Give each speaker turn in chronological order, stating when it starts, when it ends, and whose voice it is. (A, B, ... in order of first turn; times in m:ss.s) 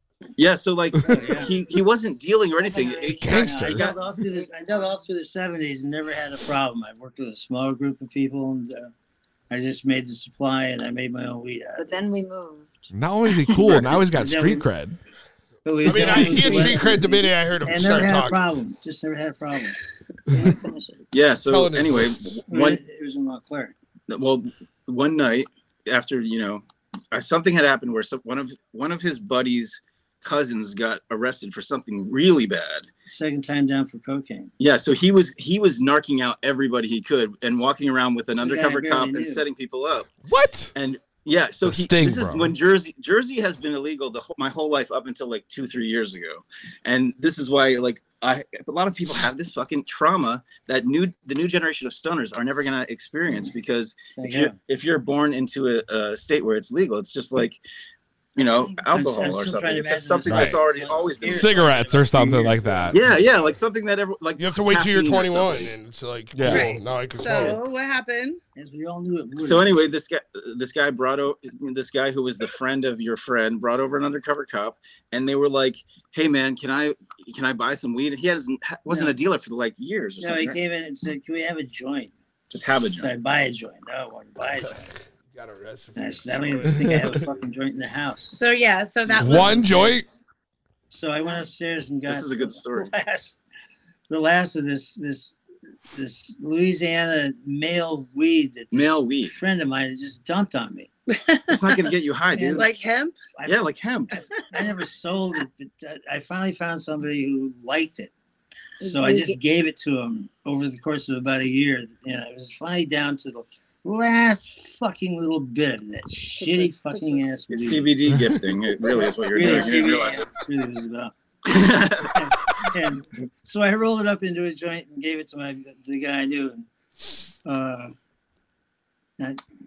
0:00.4-0:04.0 A
0:01.0-0:01.6 B
0:02.6-0:08.9 B
0:03.1-0:03.9 C
0:04.4-0:04.9 D
0:09.5-0:11.9 B
0:11.8-0:12.9 D
0:12.9-0:15.0 C
0:13.7-0:14.0 A
0:14.0-0:14.7 B
0:15.6-0:19.8 B
0:15.8-0:18.4 E
0:16.4-0:16.8 D
0:20.2-0:21.0 D
0:21.1-0:22.8 A
0:21.4-0:22.4 E
0:22.5-0:23.7 B
0:24.1-0:32.9 A
0:33.1-0:34.5 B
0:34.6-0:40.1 A
0:38.4-0:39.4 B
0:40.3-0:40.7 C
0:40.8-0:57.6 A
0:41.6-0:42.5 C
0:54.2-0:54.6 B
0:58.4-1:05.7 A
0:58.9-1:03.1 B
1:00.3-1:00.6 C
1:01.3-1:03.0 C
1:04.4-1:07.6 E
1:06.3-1:06.8 C
1:06.5-1:08.4 F
1:08.6-1:09.8 B
1:09.4-1:20.6 A
1:18.9-1:19.2 B
1:20.2-1:22.1 B
1:22.5-1:23.1 A
1:23.0-1:24.9 B
1:25.3-1:27.2 E
1:26.0-1:28.4 B
1:28.3-1:29.7 F
1:29.1-1:29.6 A
1:29.2-1:30.1 C
1:29.2-1:30.2 B
1:30.9-1:33.4 B
1:32.1-1:32.9 A
1:34.1-1:35.4 B
1:35.9-1:40.9 B
1:38.7-1:39.4 A
1:41.1-1:43.2 F
1:41.5-1:42.7 A
1:42.4-1:42.6 B
1:43.4-1:43.6 B
1:43.5-1:44.2 A
1:44.2-1:44.6 F
1:44.5-1:48.1 B
1:48.8-1:49.4 D
1:48.8-1:58.0 B
1:56.4-1:57.2 D
1:57.5-2:00.3 A
1:59.2-2:06.7 B
1:59.4-1:59.9 D
2:01.5-2:02.3 A
2:07.4-2:08.0 B